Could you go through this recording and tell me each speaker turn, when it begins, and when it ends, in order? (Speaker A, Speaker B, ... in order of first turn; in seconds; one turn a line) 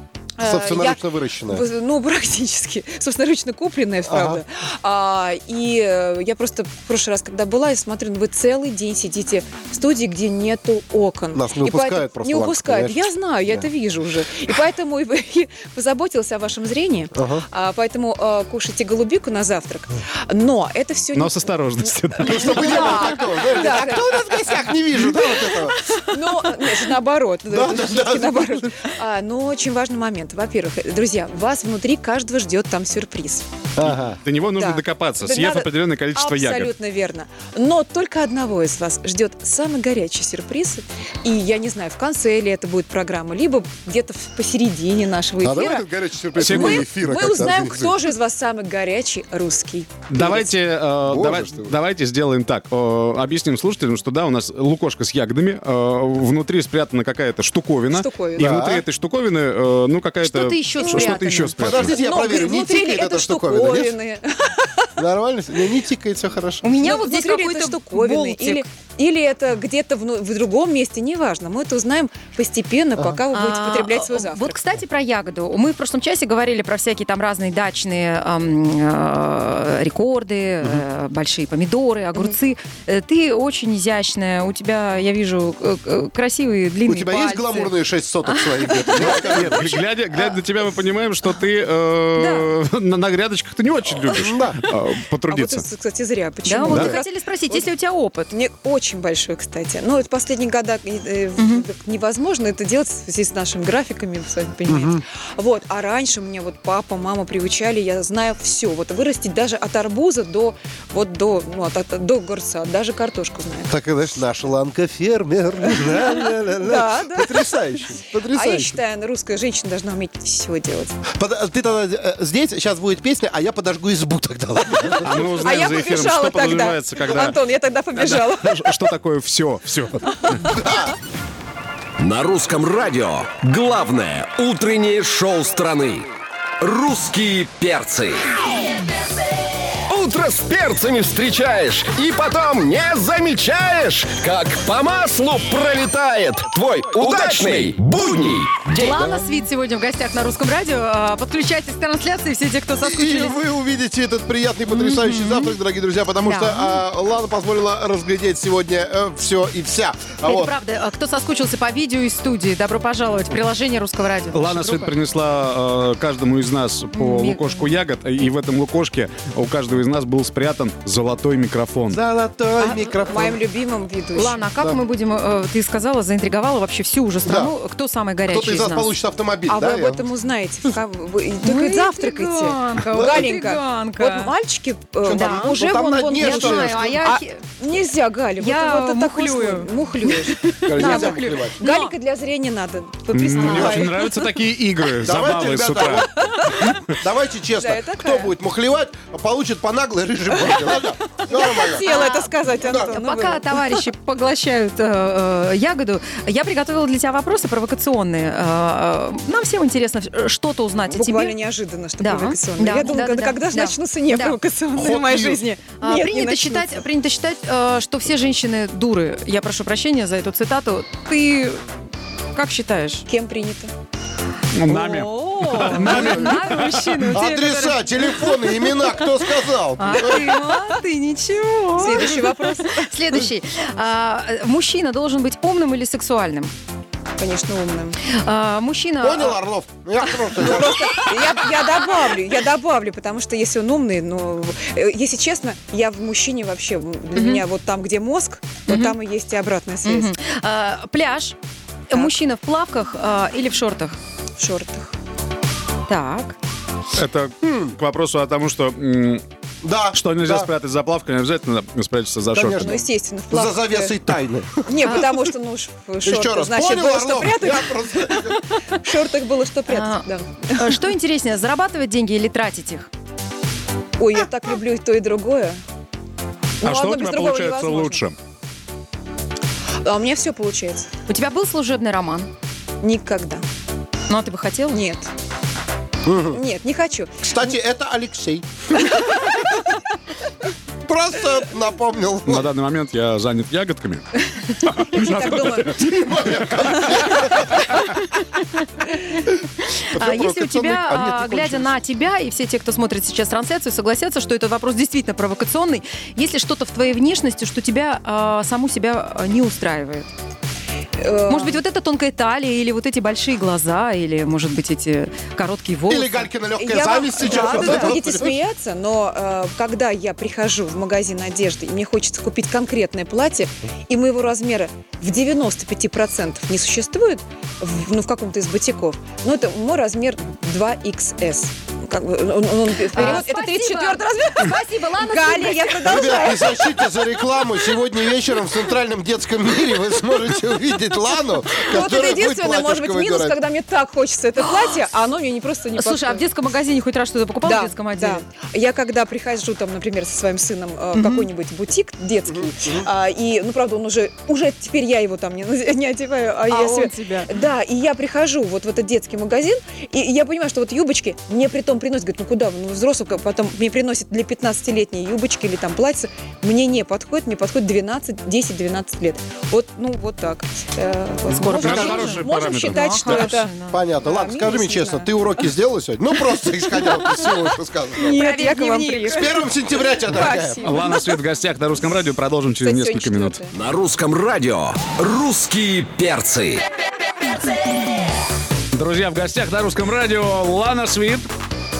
Speaker A: 0.4-25.5
Speaker B: 0.4-1.6
Speaker B: 4.1-4.4
Speaker B: 11.3-13.7
Speaker B: 17.1-17.4
Speaker C: 21.1-22.8
Speaker B: 22.2-25.8
Speaker A: 26.1-33.5
Speaker B: 27.5-28.7
Speaker B: 33.8-34.2
Speaker C: 33.8-36.7
Speaker A: 34.5-50.0
Speaker B: 45.4-48.0
Speaker C: 46.4-47.0
Speaker C: 50.1-61.9
Speaker B: 50.1-51.8
Speaker A: 57.9-58.6
Speaker B: 58.4-58.8
Speaker D: 60.2-61.6
Speaker A: 60.8-61.1
Speaker B: 61.6-64.0
Speaker A: 61.7-64.9
Speaker B: 65.0-66.8
Speaker D: 66.6-68.7
Speaker A: 66.8-74.6
Speaker B: 73.0-73.2
Speaker D: 73.3-89.2
Speaker B: 86.9-89.7
Speaker A: 89.0-89.8
Speaker C: 89.0-95.7
Speaker D: 92.2-92.5
Speaker B: 94.2-94.6
Speaker A: 95.3-97.7
Speaker D: 96.5-98.3
Speaker A: 98.3-113.7
Speaker D: 101.4-101.6
Speaker B: 104.7-105.0
Speaker B: 113.7-118.8
Speaker A: 115.7-117.7
Speaker A: 118.3-121.0
Speaker B: 121.2-125.4
Speaker C: 125.0-127.4
Speaker A: 125.2-128.8
Speaker C: 127.9-130.4
Speaker A: 130.1-130.9
Speaker B: 130.4-130.9
Speaker E: 132.0-136.1
Speaker E: 136.6-138.3
Speaker E: 139.9-148.9
Speaker D: 148.8-153.4
Speaker B: 148.9-149.3
Speaker B: 152.8-160.6
Speaker D: 154.7-155.6
Speaker D: 156.2-156.8
Speaker D: 160.2-164.9
Speaker C: 164.3-172.0
Speaker D: 166.9-167.7
Speaker B: 171.9-173.4
Speaker A: 173.0-174.4
Speaker D: 174.1-178.9
Speaker B: 177.2-177.5
Speaker B: 178.3-180.1
Speaker A: 179.5-194.2
Speaker D: 181.4-184.3
Speaker B: 182.9-183.4
Speaker B: 185.0-187.1
Speaker D: 185.1-187.4
Speaker D: 188.4-191.9
Speaker B: 190.6-191.6
Speaker C: 193.1-196.1
Speaker B: 193.4-193.8
Speaker D: 193.4-193.9
Speaker B: 195.0-196.1
Speaker A: 196.1-196.8
Speaker B: 196.6-201.9
Speaker A: 197.6-198.3
Speaker A: 200.4-200.8
Speaker A: 201.3-203.8
Speaker D: 201.4-211.4
Speaker B: 202.6-202.9
Speaker A: 210.9-216.8
Speaker D: 212.0-214.4
Speaker B: 214.7-215.4
Speaker D: 215.8-221.7
Speaker D: 222.3-223.1
Speaker A: 223.1-223.7
Speaker C: 224.6-227.2
Speaker D: 224.7-229.1
Speaker B: 225.8-226.3
Speaker B: 227.1-230.3
Speaker D: 229.8-236.5
Speaker A: 230.0-230.4
Speaker A: 231.8-232.9
Speaker A: 237.2-238.0
Speaker D: 238.1-239.4
Speaker B: 239.0-241.0
Speaker D: 240.1-241.5
Speaker A: 240.4-250.1
Speaker D: 247.2-247.4
Speaker D: 248.7-249.0
Speaker D: 249.9-251.4
Speaker D: 251.9-254.0
Speaker A: 254.4-254.9
Speaker D: 255.9-256.4
Speaker C: 256.9-259.2
Speaker B: 257.4-257.8
Speaker B: 259.6-260.5
Speaker C: 259.9-262.8
Speaker B: 262.3-265.1
Speaker A: 262.5-264.0
Speaker A: 264.6-270.8
Speaker B: 266.0-268.4
Speaker D: 269.7-272.9
Speaker A: 274.0-275.6
Speaker A: 276.6-278.0
Speaker C: 276.6-278.2
Speaker A: 279.8-280.9
Speaker D: 281.1-282.3
Speaker A: 282.8-283.4
Speaker D: 284.1-284.8
Speaker A: 284.7-285.1
Speaker B: 286.1-286.4
Speaker A: 286.3-287.5
Speaker B: 287.2-289.4
Speaker B: 290.9-292.5
Speaker C: 292.3-297.2
Speaker A: 294.9-295.8
Speaker B: 295.7-297.7
Speaker D: 299.8-310.1
Speaker B: 299.9-301.7
Speaker A: 311.0-311.6
Speaker D: 311.3-316.3
Speaker B: 315.9-318.4
Speaker A: 316.6-337.2
Speaker D: 317.2-317.9
Speaker D: 332.8-336.4
Speaker B: 335.8-343.4
Speaker A: 341.6-346.2
Speaker D: 345.8-348.2
Speaker A: 347.4-373.5
Speaker D: 350.9-351.3
Speaker B: 352.3-352.9
Speaker D: 356.5-357.3
Speaker B: 371.3-371.8
Speaker D: 371.3-373.8
Speaker C: 371.5-373.3
Speaker B: 373.7-378.2
Speaker A: 374.0-375.1
Speaker D: 378.0-379.3
Speaker A: 378.0-379.3
Speaker B: 379.1-380.7
Speaker A: 380.0-381.1
Speaker C: 380.6-383.4
Speaker A: 382.6-383.5
Speaker E: 383.5-386.6
Speaker C: 388.7-391.3